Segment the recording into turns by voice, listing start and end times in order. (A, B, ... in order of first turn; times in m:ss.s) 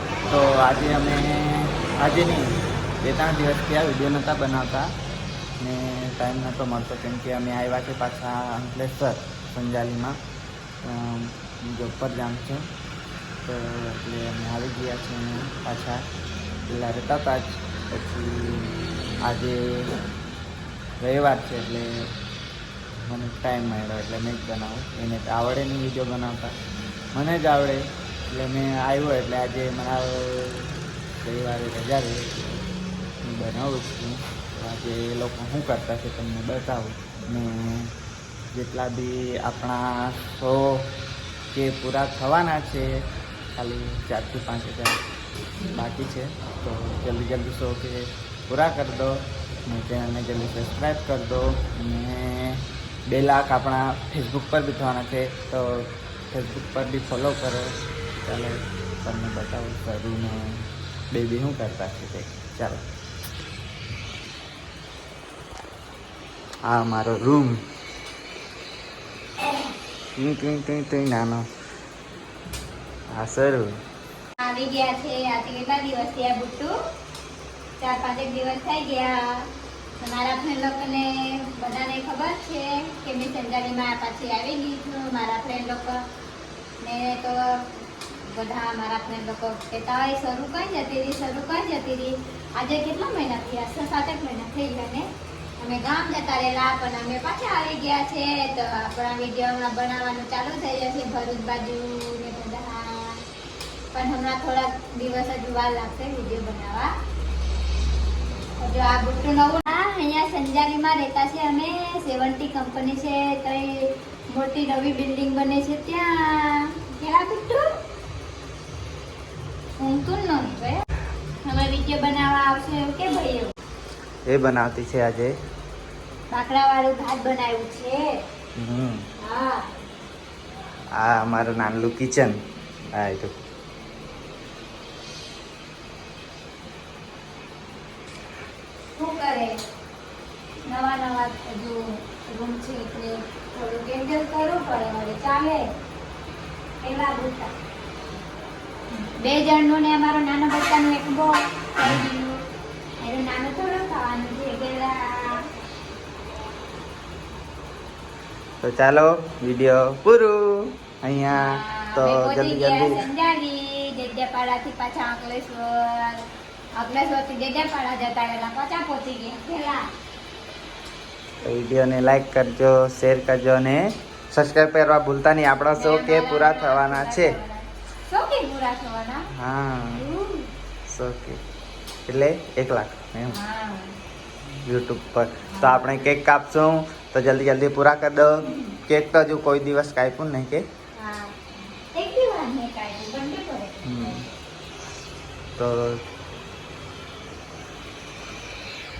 0:00.3-0:04.9 A
0:05.6-0:10.2 A
0:10.8-0:12.7 A
0:13.4-0:16.0 A
0:16.7-0:18.7 A
0:19.2-0:19.9 A
0:21.0-0:21.9 A
0:23.0-0:26.5 A
0:27.1-0:30.7 A
0:31.2-0:32.6 A
0:33.2-0:37.9 A
0:38.5-0:40.8 A
0:41.5-0:42.9 A
0:43.6-0:45.0 A
0:45.7-1:02.8 A
1:06.7-1:07.6 A
1:10.2-1:11.4 A
1:13.2-1:13.7 A
1:14.4-1:16.7 B
1:17.8-1:19.2 B
1:20.0-1:26.0 B
1:26.8-1:27.4 B
1:28.2-1:35.1 B
1:35.6-1:43.2 B
1:43.9-1:46.9 B
1:48.6-1:57.6 B
1:59.8-2:00.8 B
2:01.4-2:03.5 B
2:04.3-2:05.3 A
2:06.3-2:08.1 B
2:08.6-2:09.0 A
2:09.2-2:09.6 B
2:11.0-2:12.4 A
2:12.9-2:13.3 A
2:19.0-2:19.5 B
2:20.7-2:25.6 B
2:26.8-2:27.5 B
2:29.0-2:32.3 B
2:33.0-2:35.4 B
2:38.6-2:43.0 A
2:41.3-2:46.2 B
2:46.8-2:49.8 B
2:51.4-2:57.3 A
2:55.7-2:59.2 B
2:59.3-3:00.0 A
2:59.9-3:00.5 B
3:00.8-3:01.4 A
3:02.1-3:03.4 A
3:03.3-3:03.9 B
3:04.6-3:10.6 A
3:05.5-3:06.0 B
3:08.4-3:08.8 B
3:11.0-3:14.2 B
3:13.8-3:14.2 A
3:15.6-3:16.0 A